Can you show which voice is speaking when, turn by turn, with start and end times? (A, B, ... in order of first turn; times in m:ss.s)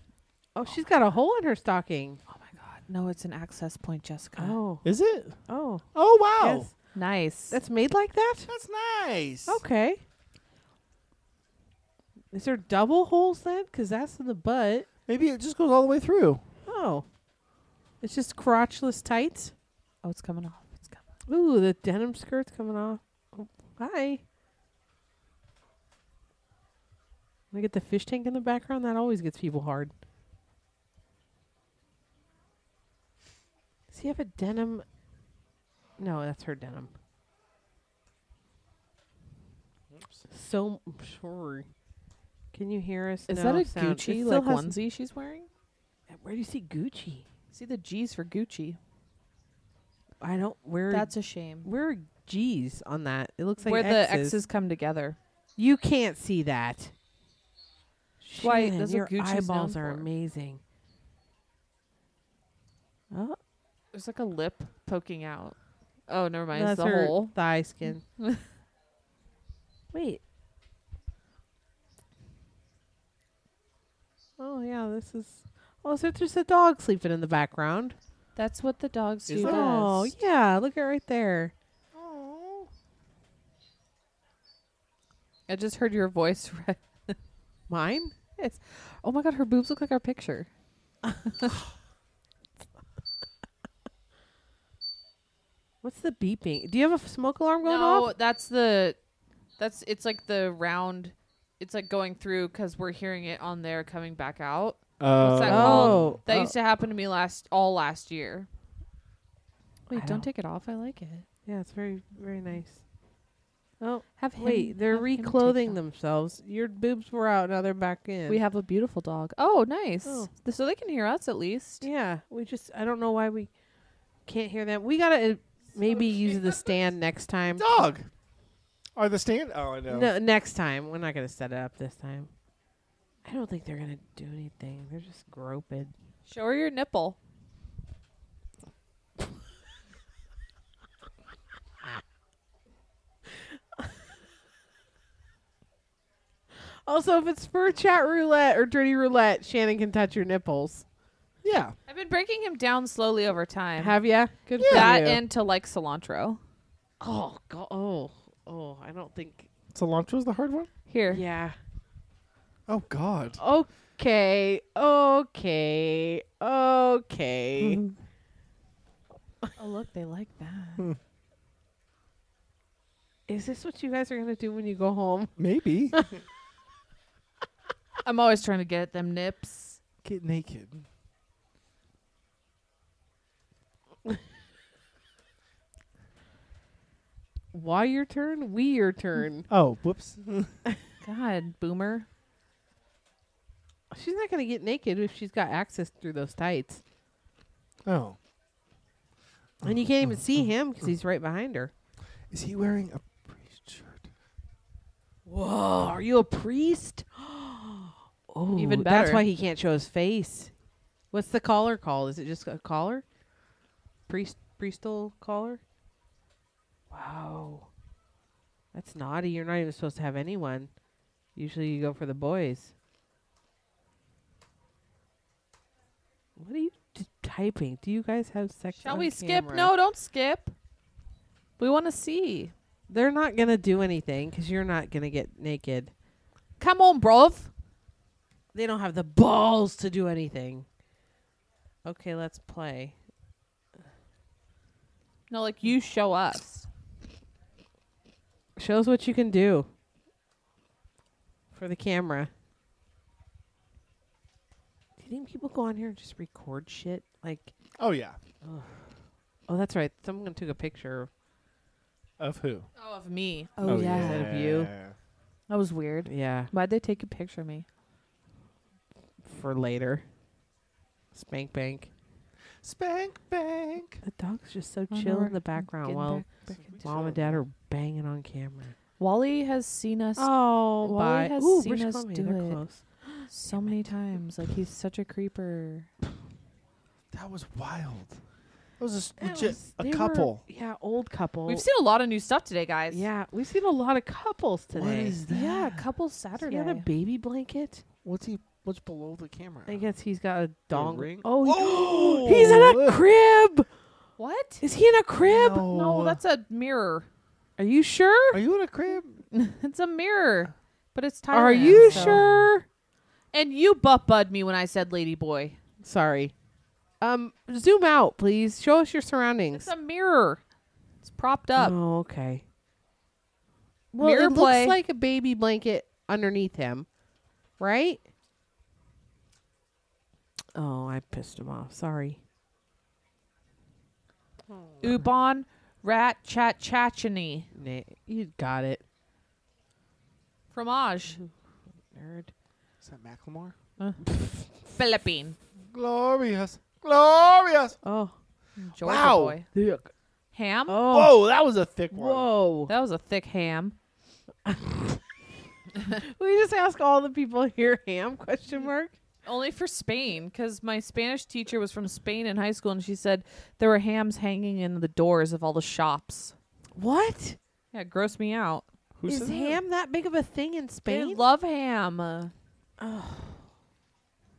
0:00.5-0:02.2 A
0:02.3-0:04.6 B
0:04.4-0:04.9 A
0:04.8-0:05.4 C
0:05.5-0:05.8 A
0:05.9-0:06.7 C
0:06.4-0:06.7 A
0:06.9-0:07.6 B
0:07.5-0:08.5 A
0:08.5-0:09.6 C
0:09.5-0:10.0 A
0:12.3-0:14.9 A
0:15.1-0:16.4 C
0:16.6-0:17.0 A
0:18.0-0:19.5 A
0:20.0-0:21.0 B
0:21.3-0:24.2 A
0:27.5-0:29.9 A
0:33.9-0:34.8 A
0:36.0-0:36.9 A
0:39.9-0:40.2 C
0:40.3-0:41.6 A
0:42.5-0:44.8 A
0:43.3-0:45.5 B
0:46.1-0:47.2 A
0:47.5-0:48.8 B
0:50.2-0:51.1 A
0:50.9-0:51.7 B
0:51.6-0:54.4 A
0:53.7-0:55.2 B
0:55.6-0:56.9 A
0:58.2-1:00.6 A
0:58.4-1:00.0 B
1:03.1-1:03.4 A
1:03.9-1:07.3 B
1:06.5-1:08.0 A
1:09.9-1:10.2 A
1:14.4-1:18.0 A
1:18.4-1:20.1 B
1:19.3-1:19.7 C
1:19.4-1:21.5 A
1:21.9-1:22.7 C
1:25.5-1:27.2 B
1:27.7-1:28.1 A
1:28.4-1:30.5 B
1:31.3-1:31.5 B
1:35.8-1:38.1 A
1:37.6-1:39.0 B
1:39.6-1:48.5 B
1:45.0-1:46.2 C
1:45.4-1:46.5 A
1:49.9-1:51.2 B
1:49.9-1:50.3 A
1:51.4-1:52.8 A
1:53.8-1:58.4 A
1:54.2-1:55.8 B
1:58.2-2:01.8 B
2:00.0-2:00.3 A
2:01.8-2:03.5 A
2:04.3-2:07.7 A
2:06.3-2:06.6 C
2:07.5-2:08.1 C
2:09.0-2:10.1 C
2:09.9-2:12.3 A
2:13.2-2:15.9 A
2:16.3-2:17.2 B
2:26.8-2:30.8 A
2:31.4-2:31.7 C
2:31.9-2:34.0 B
2:33.8-2:35.2 A
2:34.6-2:35.0 C
2:34.6-2:36.4 B
2:37.0-2:39.5 A
2:39.7-2:40.7 C
2:40.9-2:41.2 B
2:41.1-2:41.6 A
2:42.7-2:43.4 C
2:43.4-2:47.8 A
2:47.6-2:48.0 C
2:49.6-2:50.8 B
2:53.3-2:55.4 A
2:55.4-2:56.0 C
2:55.9-2:56.2 A
2:58.0-2:59.8 B
3:00.0-3:00.8 C
3:07.5-3:09.5 A
3:09.5-3:10.6 C
3:11.0-3:12.1 B
3:13.9-3:16.8 A
3:17.8-3:18.2 C
3:19.6-3:20.5 C
3:19.6-3:21.7 A
3:22.3-3:24.1 C
3:25.2-3:30.5 A
3:28.5-3:29.2 B
3:31.1-3:33.0 A
3:34.1-3:35.6 A
3:36.9-3:37.7 A
3:38.7-3:40.7 A
3:41.4-3:42.7 A
3:46.4-3:49.7 A
3:48.8-3:50.5 B
3:51.6-3:52.5 B
3:52.9-3:55.9 A
3:56.6-3:57.5 B
3:58.5-4:00.6 A
4:01.8-4:02.9 A
4:05.3-4:06.7 B
4:08.6-4:09.7 A
4:11.5-4:12.3 A
4:15.0-4:17.5 A
4:17.8-4:18.2 C
4:18.4-4:18.7 A
4:19.5-4:21.1 A
4:22.2-4:22.7 C
4:22.8-4:24.7 B
4:23.6-4:24.4 A
4:23.6-4:24.9 C
4:25.5-4:27.6 B
4:26.1-4:26.5 A
4:29.2-4:30.0 A
4:31.1-4:31.9 A
4:32.6-4:34.0 C
4:34.0-4:38.7 A
4:34.9-4:36.3 B
4:36.5-4:37.4 C
4:39.0-4:42.6 B
4:40.2-4:43.8 A
4:43.3-4:45.9 B
4:47.1-4:48.2 C
4:48.8-4:50.4 C
4:49.2-4:51.6 A
4:51.5-4:53.0 B
4:52.9-4:55.2 A
4:54.7-4:55.8 C
4:55.3-4:56.9 B
4:56.4-4:57.8 A
4:58.0-4:59.9 C
4:59.7-5:03.7 A
5:00.7-5:03.0 C
5:04.2-5:04.6 B
5:04.6-5:05.7 A
5:05.2-5:06.2 C
5:05.6-5:07.1 B
5:07.6-5:08.4 A
5:08.3-5:09.2 C
5:09.3-5:12.2 B
5:11.3-5:12.6 A
5:11.6-5:12.5 C
5:13.3-5:15.6 B
5:15.8-5:16.3 A
5:17.0-5:19.7 A
5:19.5-5:20.4 B
5:21.0-5:21.7 B
5:21.6-5:22.4 A
5:23.9-5:26.9 A
5:24.0-5:24.8 B
5:27.6-5:28.0 A
5:30.5-5:32.2 A
5:34.8-5:37.5 B
5:37.5-5:38.8 A
5:40.5-5:41.2 B
5:41.9-5:42.3 A
5:42.8-5:43.6 C
5:44.7-5:45.4 B
5:45.7-5:47.8 C
5:47.8-5:48.1 A
5:48.6-5:49.5 B
5:48.8-5:49.4 C
5:49.5-5:49.9 A
5:50.3-5:50.8 B
5:50.7-5:51.2 A
5:50.8-5:52.3 C
5:51.9-5:52.7 A
5:52.7-5:53.8 B
5:54.4-5:55.0 A
5:55.8-5:58.9 A
5:59.2-6:06.4 B
6:06.7-6:07.4 A
6:07.7-6:08.6 B
6:09.0-6:09.6 C
6:09.1-6:11.2 A
6:10.9-6:12.3 B
6:12.8-6:13.4 A